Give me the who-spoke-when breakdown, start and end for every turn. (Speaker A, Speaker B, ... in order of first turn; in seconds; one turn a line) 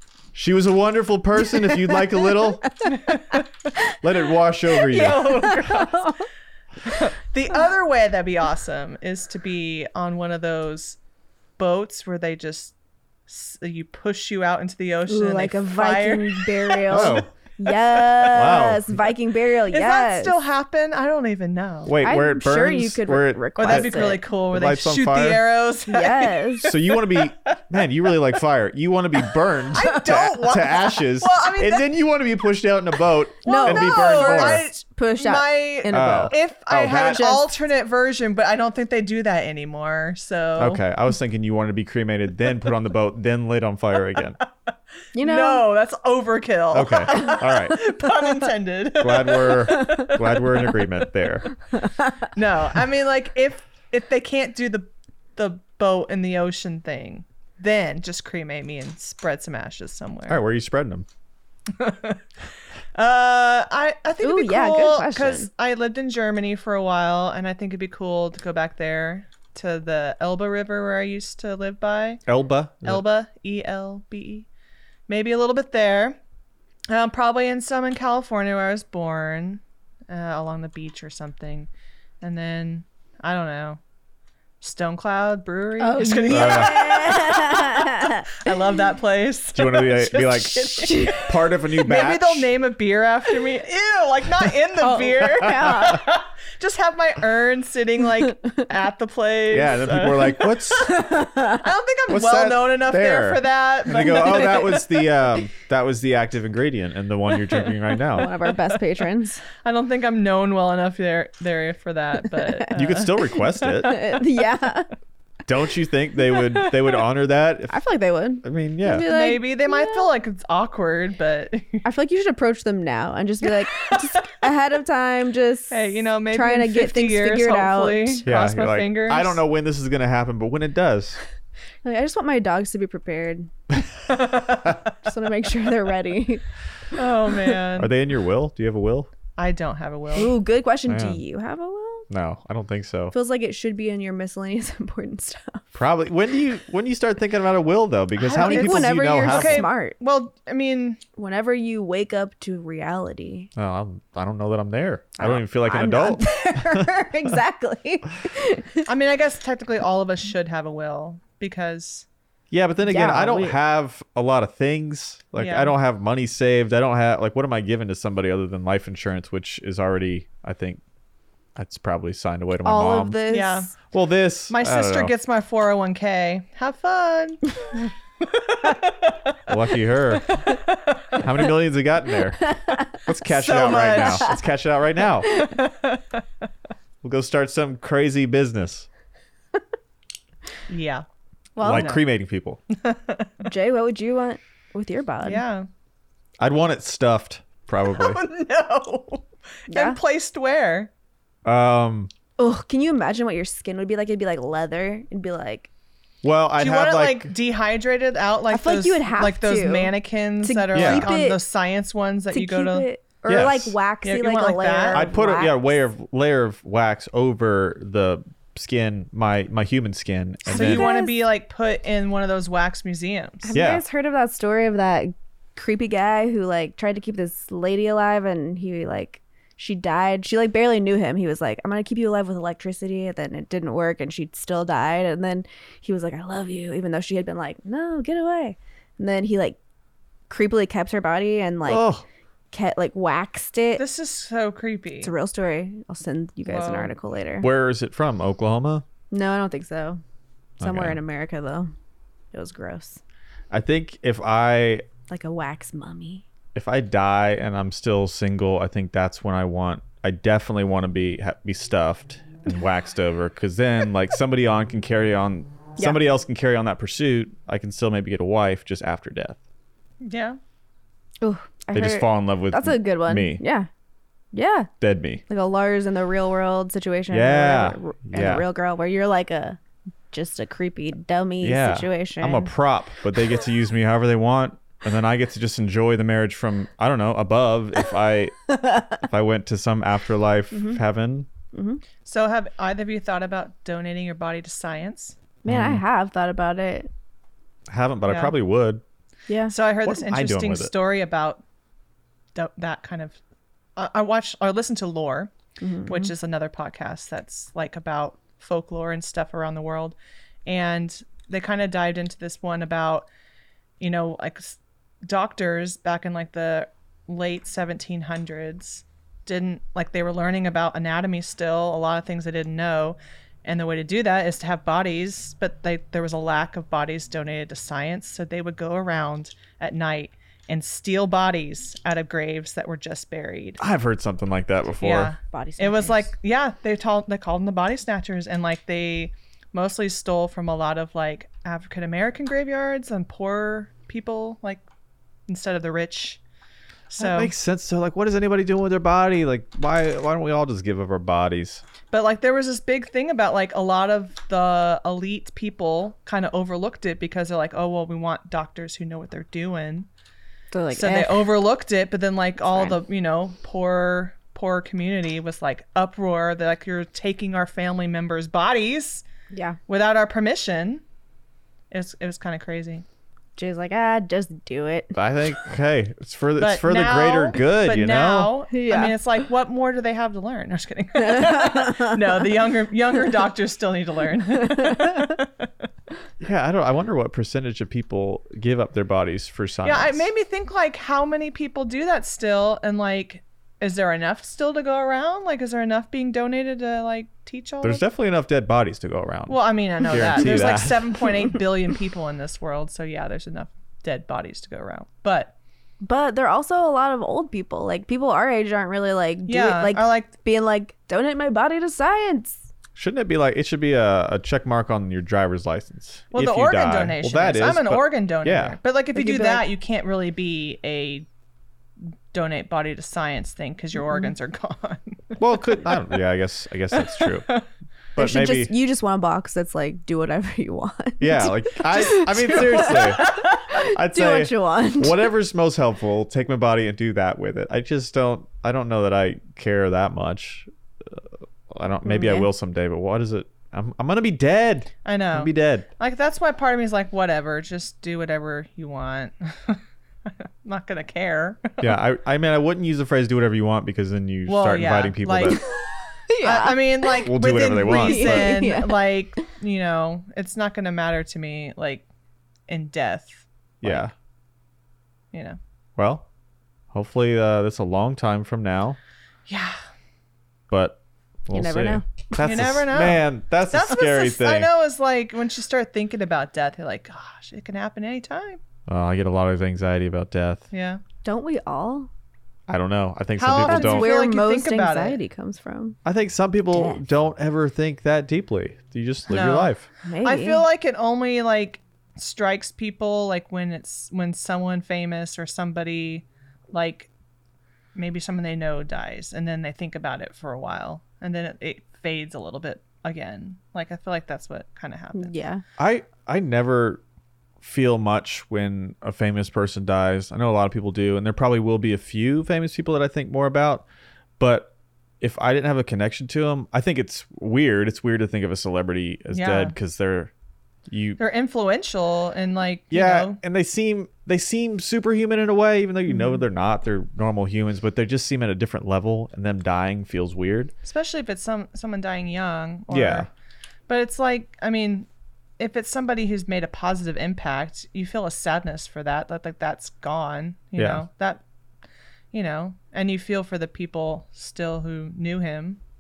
Speaker A: 0.3-2.7
Speaker B: 1.6-2.2
Speaker B: 2.8-3.9
Speaker C: 3.0-3.4
Speaker A: 3.9-5.5
Speaker B: 4.8-6.2
Speaker C: 4.9-6.2
Speaker C: 6.8-11.0
Speaker C: 11.6-12.7
Speaker C: 13.3-17.2
Speaker B: 15.1-20.4
Speaker A: 16.9-17.3
Speaker A: 18.3-18.9
Speaker C: 19.7-21.9
Speaker A: 21.9-25.5
Speaker B: 22.0-24.2
Speaker C: 23.6-27.6
Speaker B: 25.9-26.7
Speaker A: 26.6-34.7
Speaker C: 29.3-31.9
Speaker B: 33.5-36.4
Speaker C: 33.5-40.8
Speaker A: 35.9-37.3
Speaker B: 37.0-37.4
Speaker A: 40.6-44.4
Speaker B: 45.1-45.6
Speaker C: 45.2-50.9
Speaker A: 46.7-47.8
Speaker A: 49.0-51.5
Speaker B: 51.8-52.1
Speaker C: 52.3-60.4
Speaker A: 60.3-61.1
Speaker C: 61.7-62.2
Speaker C: 63.0-72.2
Speaker B: 64.2-65.5
Speaker A: 72.3-73.0
Speaker C: 72.8-74.5
Speaker C: 75.1-76.2
Speaker C: 76.9-81.7
Speaker C: 82.2-83.8
Speaker C: 84.6-104.9
Speaker B: 85.8-88.5
Speaker A: 86.3-86.7
Speaker A: 89.5-92.5
Speaker B: 90.4-91.3
Speaker B: 94.8-96.1
Speaker A: 95.2-96.0
Speaker A: 99.5-101.0
Speaker B: 100.8-101.7
Speaker A: 102.1-108.3
Speaker B: 104.0-104.8
Speaker C: 107.5-107.8
Speaker B: 108.1-109.4
Speaker C: 108.5-113.4
Speaker B: 112.4-112.6
Speaker A: 112.7-114.0
Speaker B: 113.6-114.9
Speaker A: 115.5-117.8
Speaker C: 116.4-116.9
Speaker B: 117.7-120.1
Speaker A: 118.4-119.1
Speaker C: 119.1-121.8
Speaker B: 121.8-128.3
Speaker C: 123.4-124.3
Speaker C: 125.7-129.4
Speaker A: 128.3-131.2
Speaker B: 131.8-133.5
Speaker C: 134.1-134.7
Speaker B: 135.0-136.4
Speaker C: 136.9-137.9
Speaker A: 137.8-139.1
Speaker C: 139.4-140.3
Speaker B: 140.2-142.1
Speaker A: 140.9-141.2
Speaker A: 142.1-143.1
Speaker B: 143.1-145.8
Speaker A: 145.8-149.7
Speaker C: 148.2-151.0
Speaker B: 148.4-150.0
Speaker B: 151.2-153.5
Speaker A: 153.6-157.4
Speaker B: 155.2-158.9
Speaker C: 158.9-162.1
Speaker A: 162.5-170.8
Speaker B: 162.8-163.6
Speaker C: 165.4-165.7
Speaker A: 171.6-173.2
Speaker B: 172.6-173.7
Speaker C: 173.3-173.7
Speaker A: 173.9-175.1
Speaker C: 174.5-179.3
Speaker A: 179.5-180.4
Speaker C: 180.1-181.3
Speaker A: 181.2-185.4
Speaker B: 182.4-183.0
Speaker C: 183.3-184.4
Speaker C: 185.3-186.2
Speaker A: 187.0-188.9
Speaker C: 190.7-191.1
Speaker B: 191.6-192.0
Speaker C: 191.6-192.0
Speaker A: 191.6-192.6
Speaker C: 192.7-193.4
Speaker B: 193.4-195.4
Speaker C: 195.2-195.7
Speaker A: 196.4-198.2
Speaker C: 197.9-200.9
Speaker B: 199.7-200.0
Speaker A: 201.4-202.1
Speaker B: 202.4-205.7
Speaker A: 206.2-207.3
Speaker C: 206.6-212.9
Speaker B: 208.5-211.4
Speaker A: 210.7-211.1
Speaker B: 212.3-215.8
Speaker A: 213.3-213.8
Speaker C: 214.0-215.1
Speaker A: 214.9-220.9
Speaker B: 220.5-221.2
Speaker C: 220.5-223.5
Speaker B: 223.4-239.6
Speaker A: 223.5-223.8
Speaker B: 240.3-241.9
Speaker A: 241.7-242.0
Speaker B: 242.5-243.8
Speaker C: 243.8-245.1
Speaker B: 245.0-247.5
Speaker C: 246.5-246.9
Speaker A: 247.4-248.8
Speaker B: 249.1-250.0
Speaker A: 250.6-251.0
Speaker B: 250.6-251.7
Speaker B: 252.3-253.0
Speaker A: 253.5-254.9
Speaker B: 255.1-256.2
Speaker A: 256.6-269.4
Speaker C: 270.0-270.4
Speaker B: 271.2-273.7
Speaker A: 271.7-273.4
Speaker B: 274.3-274.7
Speaker A: 274.8-275.2
Speaker B: 275.3-279.6
Speaker A: 277.1-278.4
Speaker B: 280.1-282.5
Speaker A: 281.4-291.3
Speaker B: 288.5-289.0
Speaker B: 290.5-290.8
Speaker B: 291.5-291.8
Speaker C: 292.1-295.2
Speaker B: 295.4-296.9
Speaker A: 295.5-295.8
Speaker A: 297.7-298.8
Speaker C: 298.1-298.3
Speaker B: 299.3-299.6
Speaker C: 299.5-301.4
Speaker A: 299.9-300.7
Speaker C: 302.4-303.2
Speaker C: 303.8-305.3
Speaker B: 305.6-306.1
Speaker C: 305.9-309.9
Speaker C: 310.5-313.1
Speaker C: 313.8-333.6
Speaker A: 333.6-335.1
Speaker C: 334.8-344.6
Speaker B: 335.3-336.1
Speaker C: 345.3-346.2
Speaker C: 346.9-347.3
Speaker A: 347.0-351.6
Speaker C: 351.9-359.9
Speaker B: 360.5-361.3
Speaker C: 360.7-369.1
Speaker B: 362.5-362.8
Speaker B: 369.3-369.6
Speaker C: 369.7-370.8
Speaker C: 371.7-372.9
Speaker B: 373.4-375.0
Speaker A: 374.9-378.3
Speaker C: 376.4-385.5
Speaker B: 378.5-379.0
Speaker B: 381.0-382.0
Speaker A: 386.2-390.1
Speaker C: 389.6-397.8
Speaker A: 397.6-401.2
Speaker C: 399.3-405.3
Speaker B: 405.8-412.5
Speaker C: 409.3-410.1
Speaker A: 412.8-418.6
Speaker C: 416.1-421.1
Speaker B: 418.9-419.5
Speaker C: 422.1-426.0
Speaker A: 425.2-427.3
Speaker C: 426.7-427.4
Speaker A: 427.9-428.5
Speaker B: 428.0-435.1
Speaker A: 431.0-445.7
Speaker C: 432.2-433.2
Speaker B: 441.9-442.3
Speaker C: 444.9-451.7
Speaker A: 451.6-455.4
Speaker C: 454.3-455.4
Speaker B: 456.1-457.1
Speaker C: 456.2-461.9
Speaker A: 457.0-458.4
Speaker B: 457.7-458.9
Speaker C: 462.5-463.2
Speaker A: 463.6-463.9
Speaker C: 465.1-465.4
Speaker A: 465.8-466.1
Speaker A: 466.7-468.8
Speaker C: 469.3-469.6
Speaker A: 470.5-474.5
Speaker B: 471.3-472.3
Speaker C: 472.2-478.4
Speaker A: 478.7-480.4
Speaker C: 480.5-480.8
Speaker B: 481.0-481.9
Speaker A: 482.5-483.9
Speaker C: 483.2-485.0
Speaker B: 483.5-485.8
Speaker A: 485.9-489.7
Speaker B: 486.5-486.8
Speaker C: 489.1-496.9
Speaker B: 489.9-490.4
Speaker C: 497.8-505.1
Speaker B: 504.9-505.4
Speaker A: 505.6-506.8
Speaker A: 507.4-513.7
Speaker A: 514.2-520.1
Speaker C: 519.1-519.5
Speaker A: 520.7-521.0
Speaker C: 521.0-523.2
Speaker A: 522.7-530.5
Speaker C: 530.6-533.1
Speaker A: 532.7-533.1
Speaker C: 533.7-534.9
Speaker C: 535.4-541.2
Speaker A: 540.6-540.9
Speaker C: 542.1-545.6